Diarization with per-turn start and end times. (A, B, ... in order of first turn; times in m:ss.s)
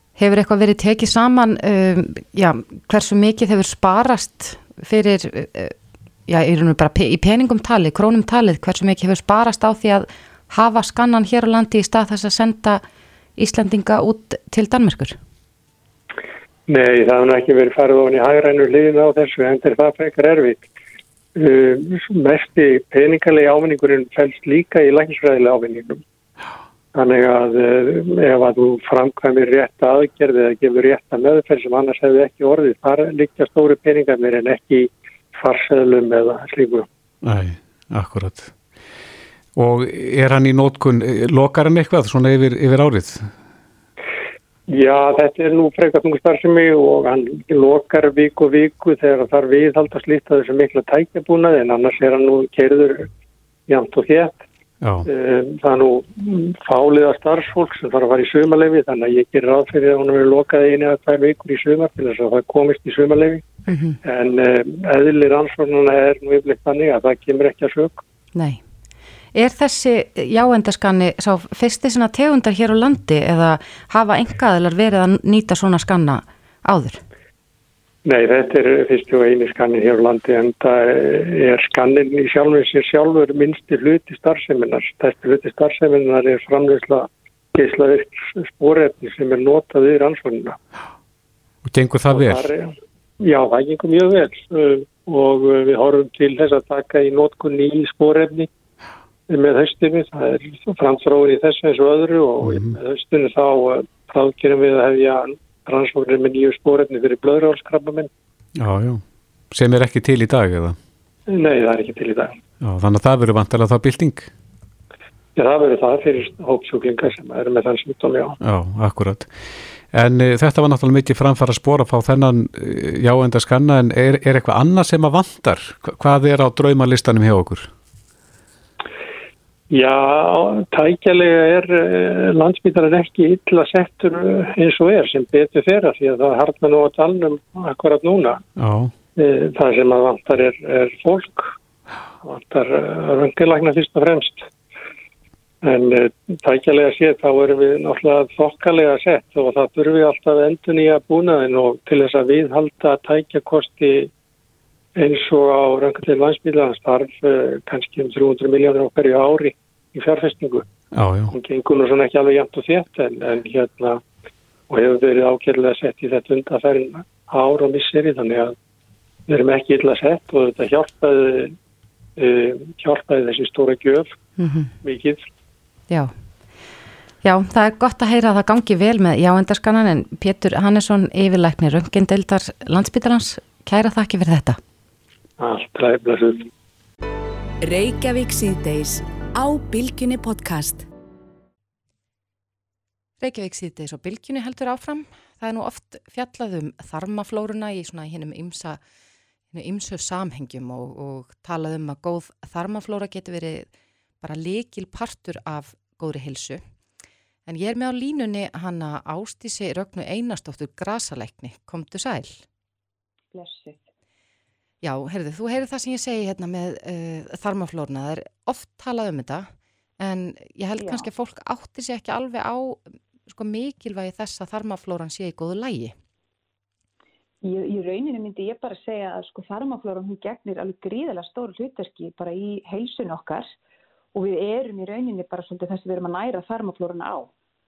0:00.2-0:05.7 A
0:06.3-0:12.8 A
0:13.4-0:15.2 A
0:16.7-0:20.7 B
0:21.4-0:26.0 B
0:26.9-0:36.9 B
0:37.2-0:38.5 C
0:39.5-0:43.3 C
0:44.7-0:53.1 B
0:53.7-0:54.4 B
0:54.8-0:55.0 C
0:55.0-1:03.4 B
1:03.7-1:04.0 A
1:04.0-1:08.0 B
1:08.3-1:08.6 A
1:09.3-1:17.0 A
1:18.0-1:30.6 B
1:31.6-1:32.5 C
1:32.1-1:38.5 B
1:39.3-1:48.1 B
1:42.4-1:42.8 C
1:48.6-1:50.8 C
1:51.3-1:52.4 B
1:52.6-1:54.3 C
1:55.4-1:58.4 B
1:58.4-1:59.3 C
1:59.9-2:07.7 C
2:09.7-2:18.4 B
2:18.6-2:18.9 C
2:19.2-2:21.5 B
2:22.2-2:24.5 B
2:25.6-2:34.1 B
2:35.0-2:40.6 B
2:40.9-2:41.3 C
2:41.3-2:44.0 B
2:44.7-2:48.5 B
2:49.3-2:51.5 B
2:52.2-2:54.1 B
2:54.4-2:54.7 A
2:54.8-2:55.2 B
2:57.2-3:04.6 A
3:05.4-3:06.5 B
3:07.6-3:10.8 D
3:13.2-3:18.8 A
3:19.5-3:23.7 A
3:24.2-3:26.6 A
3:27.5-3:32.4 A
3:33.3-3:33.8 E
3:34.8-3:39.5 A
3:40.0-3:45.9 A
3:40.8-3:41.1 E
3:47.4-3:53.5 E
3:54.1-3:57.3 E